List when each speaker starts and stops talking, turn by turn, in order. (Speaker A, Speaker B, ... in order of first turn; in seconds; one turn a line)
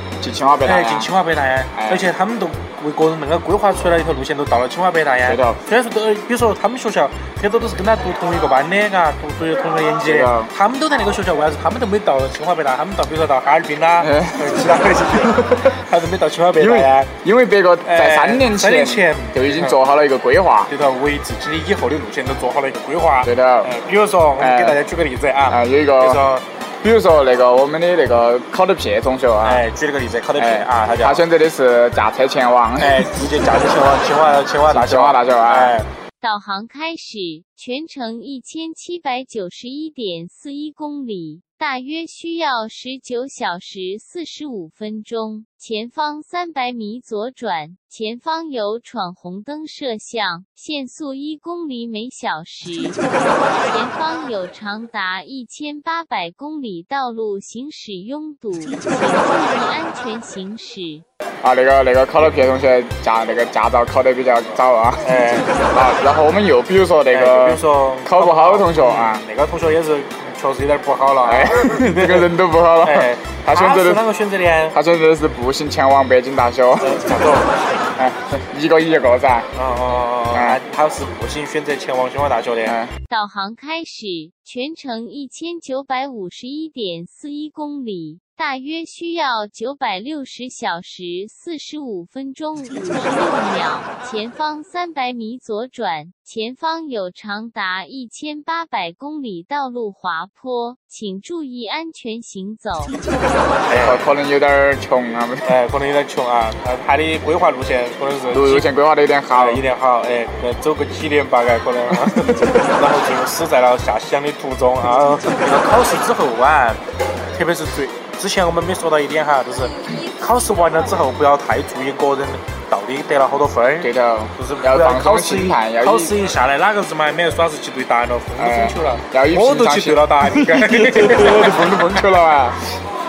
Speaker A: 0.2-1.1
Speaker B: 0.6-17.1
Speaker A: 1.7-2.1
Speaker A: 5.3-5.6
Speaker A: 10.1-10.5
Speaker A: 14.0-15.8
Speaker A: 16.6-20.7
Speaker B: 17.9-19.8
Speaker B: 20.7-26.4
Speaker A: 23.2-23.7
Speaker A: 24.4-24.8
Speaker A: 25.5-26.2
Speaker A: 26.8-29.6
Speaker B: 29.4-31.2
Speaker A: 30.4-33.1
Speaker B: 32.8-35.9
Speaker A: 34.7-35.8
Speaker C: 36.2-53.0
Speaker C: 53.6-61.1
Speaker A: 61.4-69.2
Speaker B: 65.0-65.5
Speaker B: 67.1-72.3
Speaker A: 71.2-74.0
Speaker B: 72.8-74.8
Speaker A: 74.7-77.0
Speaker B: 76.8-77.6
Speaker A: 78.0-79.5
Speaker B: 79.5-82.8
Speaker A: 80.3-80.6
Speaker A: 82.7-82.9
Speaker C: 83.1-103.0
Speaker B: 103.7-104.1
Speaker A: 103.8-105.5
Speaker B: 105.5-108.7
Speaker A: 108.3-109.6
Speaker B: 109.3-116.8
Speaker A: 112.1-112.5
Speaker B: 117.3-132.0
Speaker A: 123.8-126.1
Speaker A: 128.4-132.6